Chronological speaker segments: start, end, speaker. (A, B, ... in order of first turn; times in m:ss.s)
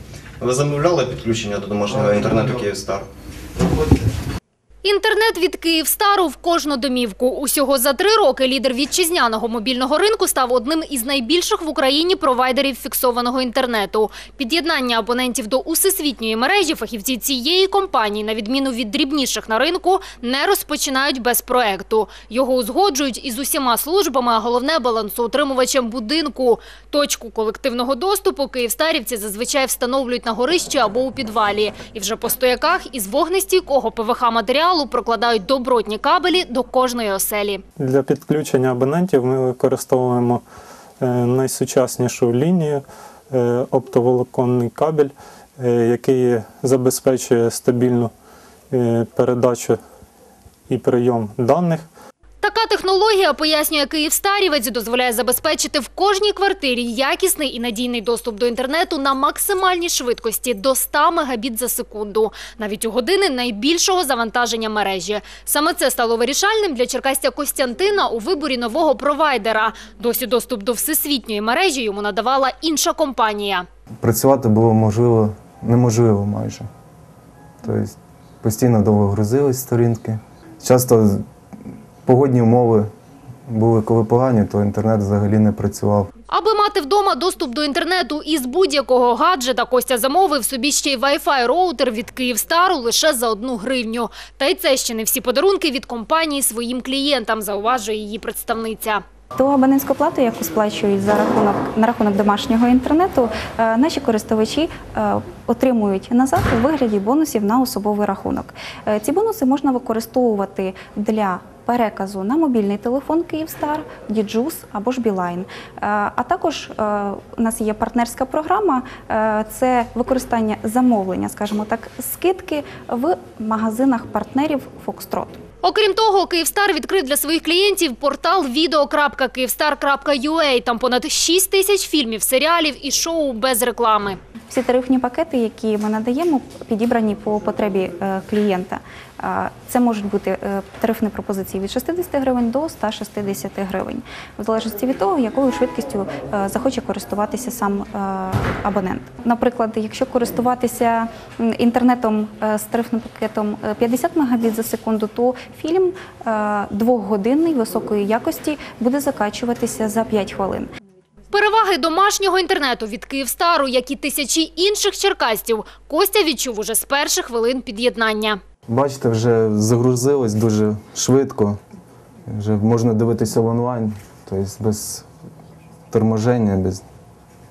0:00.4-0:03.1 A
0:04.8-0:37.6 B
0:37.8-0:40.4 C
0:41.0-0:48.1 C
0:48.7-0:49.8 C
0:50.7-0:51.9 C
0:52.4-1:13.6 B
1:14.0-1:16.7 D
1:17.6-1:21.2 D
1:22.0-1:22.9 D
1:23.5-1:26.1 D
1:26.3-1:39.0 B
1:39.4-2:05.4 E
2:05.6-2:14.2 B
2:14.5-2:40.7 E
2:41.3-2:48.4 B
2:48.7-2:51.6 D
2:52.3-2:55.1 D
2:55.9-2:56.8 D